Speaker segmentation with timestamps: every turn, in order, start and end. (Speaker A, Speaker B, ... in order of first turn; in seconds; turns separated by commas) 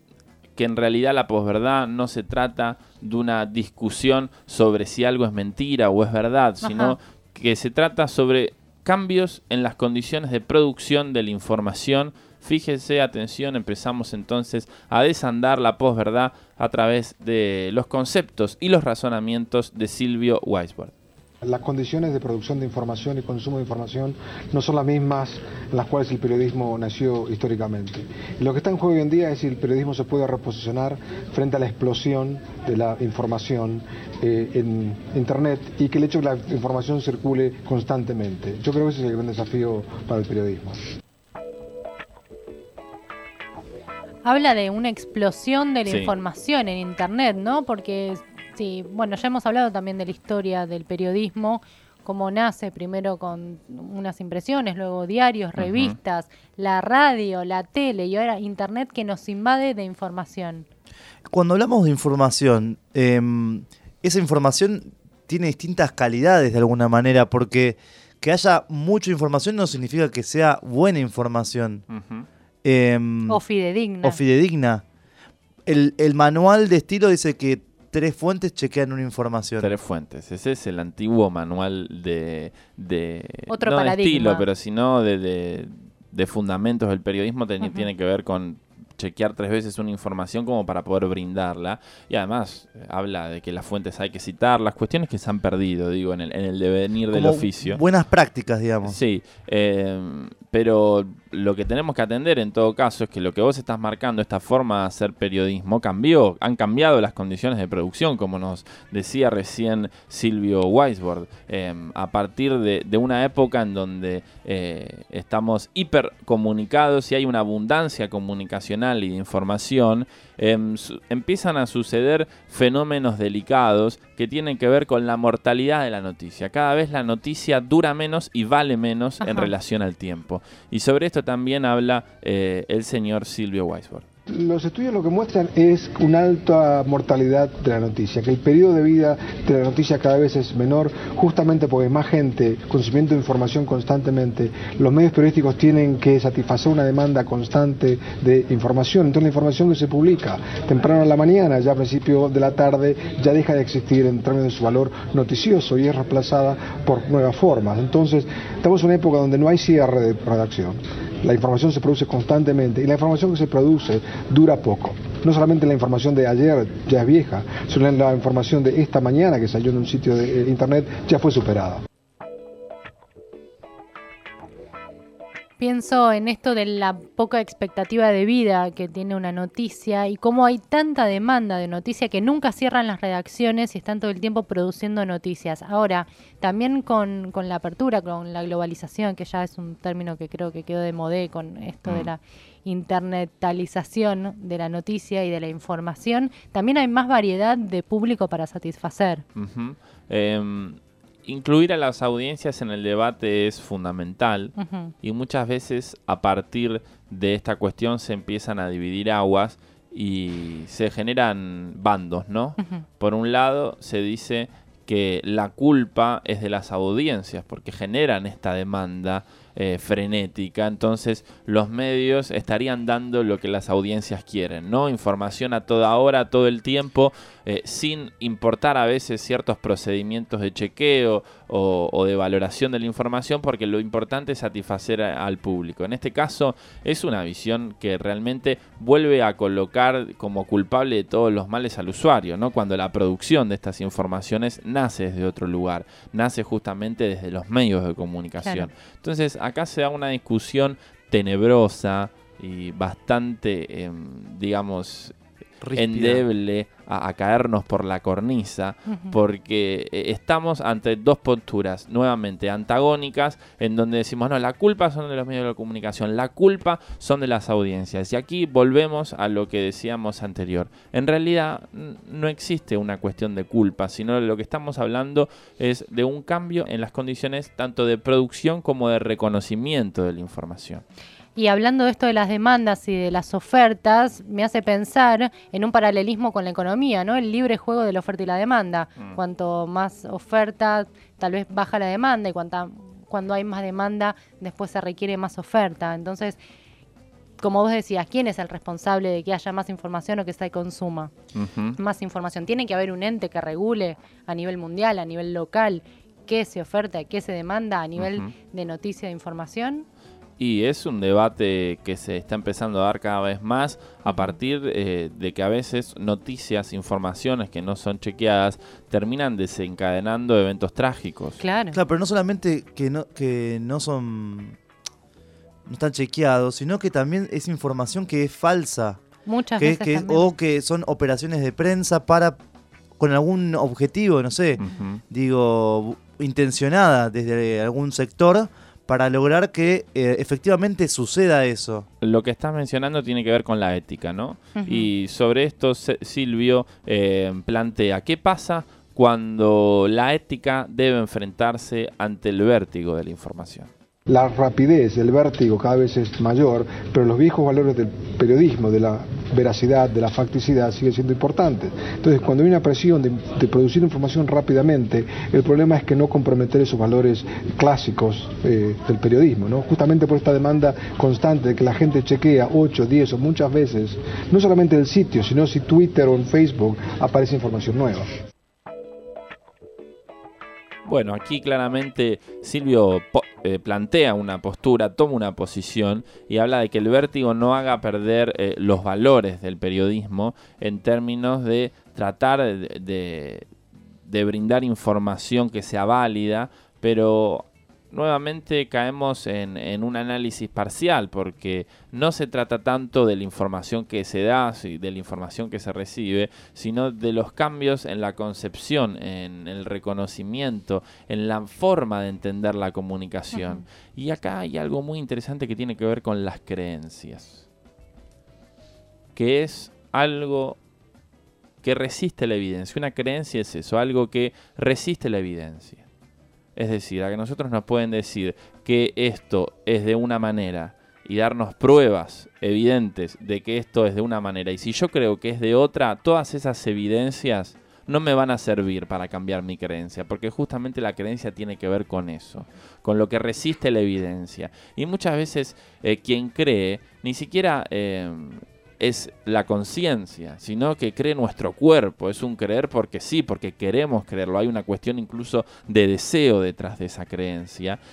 Speaker A: 0.6-20.9, Speaker B: 6.6-7.0, Speaker C: 21.4-40.8, Speaker B: 44.2-60.6, Speaker A: 45.9-46.1, Speaker A: 55.6-55.9, Speaker D: 61.3-71.8, Speaker A: 71.9-72.3, Speaker D: 72.6-73.4, Speaker B: 73.3-74.2, Speaker D: 74.0-74.8, Speaker D: 75.7-79.7, Speaker A: 79.6-97.8, Speaker B: 83.5-84.5, Speaker B: 87.6-87.9, Speaker D: 97.1-99.0, Speaker A: 98.8-134.0, Speaker B: 129.2-129.5, Speaker C: 134.3-171.8, Speaker B: 175.6-199.2, Speaker A: 199.3-255.1, Speaker B: 204.6-204.9, Speaker B: 212.6-212.8, Speaker B: 248.4-248.7, Speaker D: 255.6-256.2, Speaker A: 255.8-280.8, Speaker B: 258.9-259.1, Speaker B: 281.4-296.4, Speaker B: 297.4-301.1, Speaker A: 301.3-301.8, Speaker B: 301.8-309.9, Speaker A: 308.0-308.3, Speaker A: 310.4-321.4, Speaker B: 314.1-314.4, Speaker B: 321.4-321.8, Speaker D: 321.7-324.6, Speaker D: 325.7-329.0, Speaker B: 329.2-330.3, Speaker D: 329.6-332.4, Speaker D: 333.0-341.9, Speaker A: 334.6-335.0, Speaker A: 342.0-353.7, Speaker B: 344.6-344.9, Speaker C: 354.1-378.1, Speaker A: 380.8-393.5, Speaker A: 394.1-417.4, Speaker B: 413.3-413.6, Speaker A: 419.1-420.6, Speaker A: 421.6-425.8, Speaker A: 426.6-457.8